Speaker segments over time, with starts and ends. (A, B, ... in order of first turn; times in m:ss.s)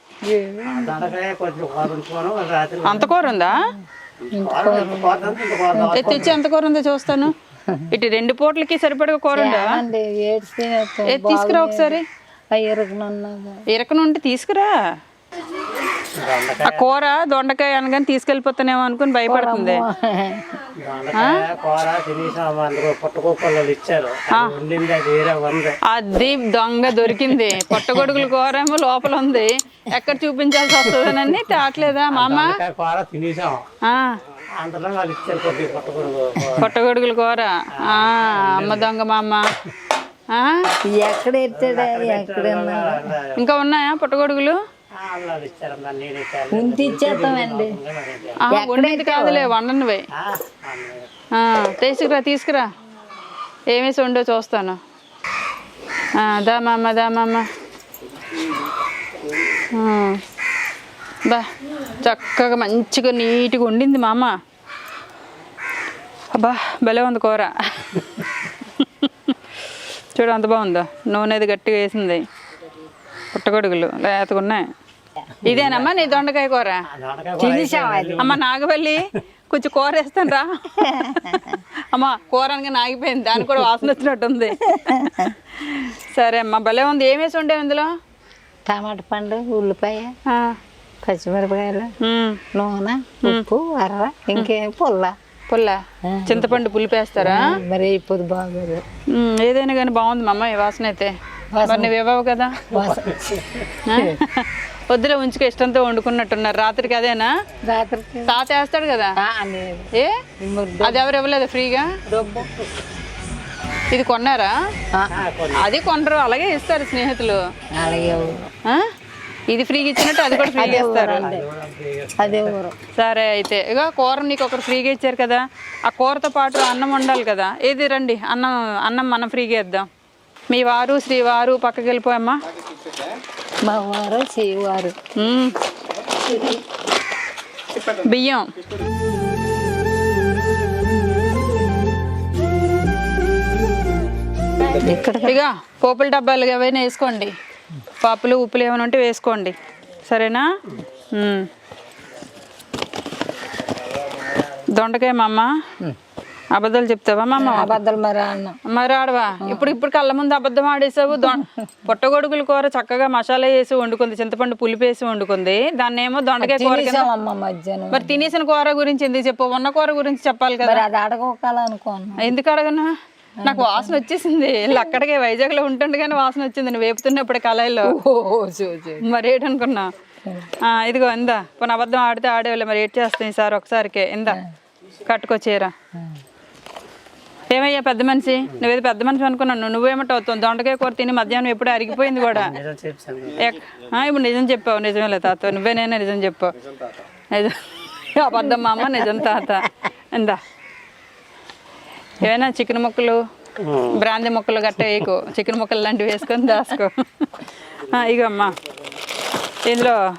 0:00.2-0:01.1 A
0:00.7-0:03.1 B
0:02.9-0:03.6 C
0:03.0-0:06.4 A
0:04.3-0:06.4 B
0:06.0-0:07.3 C
0:07.7-0:07.9 A
0:07.9-0:09.8 C
0:09.3-0:12.0 A
0:11.1-0:12.0 C
0:12.5-0:13.6 A
0:13.7-0:14.7 C
0:16.2-0:16.8 B
0:16.7-0:19.8 C
0:19.3-0:20.6 A
0:20.8-0:25.8 B
0:25.9-0:32.6 C
0:27.7-0:28.2 A
0:30.9-0:31.3 B
0:32.1-0:33.6 B
0:33.8-0:34.2 C
0:34.6-0:36.8 B
0:36.6-0:39.4 C
0:37.8-0:38.9 B
0:40.3-0:40.6 C
0:41.0-0:43.1 A
0:41.5-0:43.3 B
0:43.4-0:44.6 C
0:45.0-0:48.4 B
0:46.5-0:47.8 A
0:48.5-0:50.0 C
0:48.5-0:49.5 A
0:50.2-0:51.1 B
0:51.4-0:52.6 C
0:53.7-0:54.8 C
0:56.2-0:57.5 C
0:59.7-1:00.2 C
1:01.3-1:04.3 C
1:06.3-1:09.3 C
1:10.2-1:12.2 C
1:13.3-1:14.7 C
1:15.4-1:16.1 B
1:15.4-1:16.8 C
1:16.9-1:18.4 B
1:17.4-1:18.4 A
1:18.2-1:27.9 C
1:20.8-1:21.6 A
1:24.7-1:25.4 A
1:28.7-1:30.1 A
1:30.3-1:30.6 C
1:31.0-1:31.9 A
1:32.0-1:32.4 C
1:32.5-1:35.1 A
1:35.5-1:37.4 C
1:36.1-1:36.5 A
1:36.4-1:36.6 B
1:37.2-1:38.8 A
1:39.1-1:42.6 C
1:41.5-1:41.9 A
1:42.7-1:43.2 A
1:42.8-1:43.8 B
1:43.9-1:47.3 C
1:43.9-1:44.2 A
1:47.7-1:48.3 A
1:48.3-1:49.1 C
1:49.2-1:49.9 A
1:50.4-1:51.0 A
1:50.8-1:52.0 C
1:52.1-1:52.5 A
1:53.9-1:54.5 C
1:54.9-1:55.2 A
1:55.1-1:55.6 B
1:55.6-1:57.4 C
1:57.8-1:58.5 A
1:59.5-2:01.3 C
2:00.4-2:01.4 A
2:00.7-2:02.6 B
2:02.2-2:02.7 A
2:03.0-2:09.9 C
2:10.5-2:12.4 C
2:13.6-2:15.0 A
2:15.2-2:15.6 C
2:17.8-2:18.4 C
2:24.7-2:25.4 A
2:25.2-2:27.3 C
2:28.0-2:29.6 C
2:30.1-2:30.5 C
2:31.1-2:31.5 C
2:34.7-2:35.5 C
2:36.5-2:37.8 C
2:37.4-2:38.6 A
2:38.7-2:47.1 C
2:39.4-2:39.7 A
2:41.2-2:41.5 A
2:46.4-2:48.3 A
2:47.9-2:50.8 C
2:50.6-2:52.3 A
2:52.2-2:52.9 C
2:53.4-2:54.0 A
2:53.4-2:57.9 C
2:57.9-2:59.0 A
2:59.0-2:59.9 C
3:00.6-3:04.4 C
3:05.0-3:05.7 C
3:07.5-3:12.6 C
3:12.3-3:13.5 B
3:13.4-3:16.5 C
3:17.3-3:20.4 C
3:18.5-3:19.2 A
3:22.2-3:23.2 C
3:23.6-3:24.0 B
3:24.0-3:28.6 C
3:29.7-3:30.0 C